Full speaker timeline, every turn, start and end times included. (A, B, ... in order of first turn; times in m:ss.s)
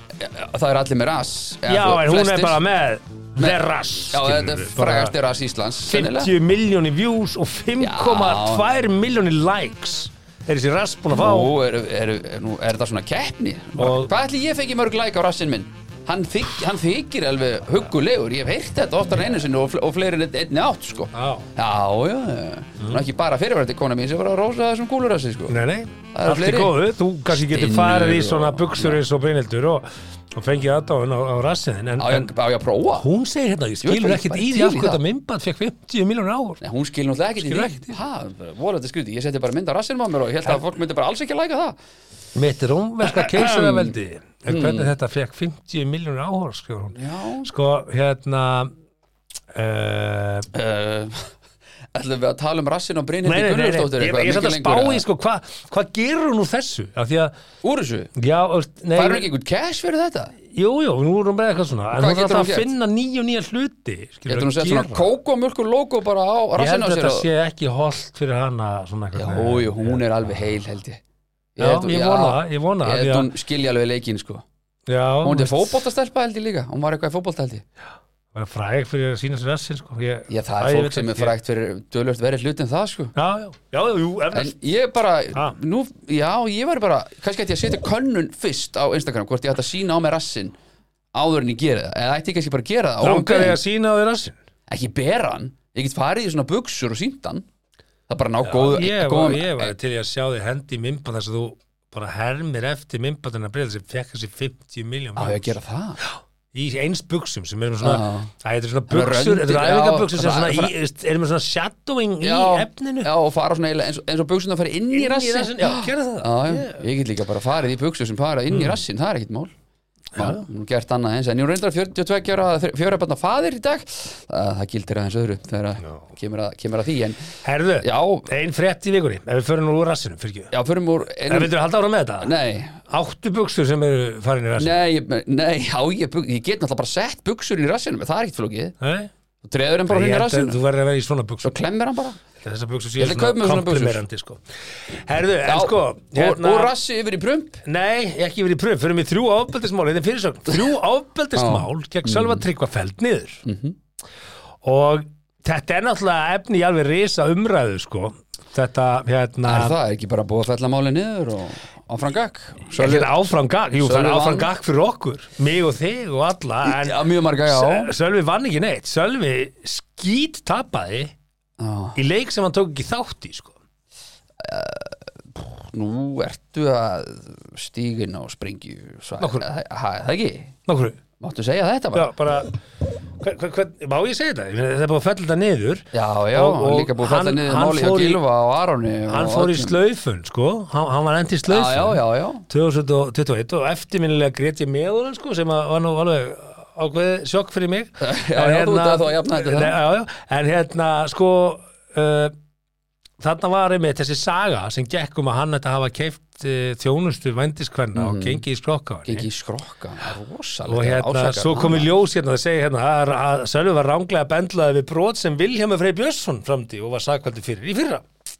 0:00.2-0:02.6 A
0:01.6-0:05.1 B
0:03.4-0:06.3 A
0:05.8-0:11.5 B
0:07.8-0:08.6 A
0:11.1-0:25.6 A
0:13.8-0:14.1 B
0:21.1-0:21.4 B
0:25.5-0:32.3 B
0:26.1-0:26.7 A
0:27.3-0:29.0 A
0:32.0-0:33.0 A
0:32.9-0:36.6 B
0:33.8-0:35.0 A
0:36.6-0:41.8 A
0:37.4-0:38.0 B
0:42.3-0:48.7 B
0:43.0-0:43.9 A
0:44.5-0:44.9 A
0:47.0-0:47.5 A
0:49.5-0:50.5 B
0:50.5-0:51.3 A
0:51.9-0:55.0 A
0:53.2-0:57.3 B
0:57.6-0:58.1 A
0:58.2-0:59.3 B
0:59.0-1:00.3 A
1:00.5-1:05.1 B
1:02.0-1:02.7 A
1:04.3-1:07.3 A
1:06.6-1:10.0 B
1:09.2-1:11.0 A
1:11.6-1:14.4 A
1:11.6-1:13.3 B
1:14.9-1:15.8 B
1:15.2-1:17.6 A
1:18.3-1:21.3 B
1:20.3-1:23.1 A
1:23.1-1:24.5 B
1:24.3-1:30.5 A
1:31.1-1:33.6 A
1:33.0-1:34.4 B
1:34.7-1:37.4 A
1:38.1-1:39.7 A
1:38.4-1:53.1 B
1:45.2-1:46.0 A
1:47.8-1:48.3 A
1:48.9-1:50.7 A
1:52.2-1:59.5 A
1:54.9-1:56.8 B
1:58.5-1:58.8 B
2:00.2-2:00.4 B
2:00.2-2:07.3 A
2:07.4-2:10.5 B
2:07.8-2:08.3 A
2:10.5-2:11.5 A
2:11.3-2:12.3 B
2:12.2-2:12.8 A
2:12.9-2:14.8 B
2:14.6-2:18.8 A
2:18.8-2:19.1 B
2:19.4-2:20.6 A
2:19.9-2:21.6 B
2:21.4-2:22.2 A
2:22.4-2:26.7 B
2:23.0-2:24.0 A
2:25.4-2:27.6 A
2:27.6-2:33.4 B
2:31.4-2:32.4 A
2:33.4-2:33.7 A
2:34.6-2:39.8 B
2:39.4-2:43.1 A
2:42.8-2:51.1 B
2:43.8-2:44.5 A
2:46.6-2:47.9 A
2:51.6-2:52.0 A
2:51.9-2:53.6 B
2:54.4-3:00.5 A
3:00.7-3:01.0 B
3:01.2-3:02.1 A
3:01.9-3:02.6 B
3:03.2-3:08.2 B
3:05.9-3:09.8 A
3:09.1-3:22.3 B
3:11.5-3:12.4 A
3:18.0-3:19.8 A
3:23.2-3:29.3 B
3:27.9-3:28.4 A
3:29.1-3:31.9 A
3:30.7-3:38.1 B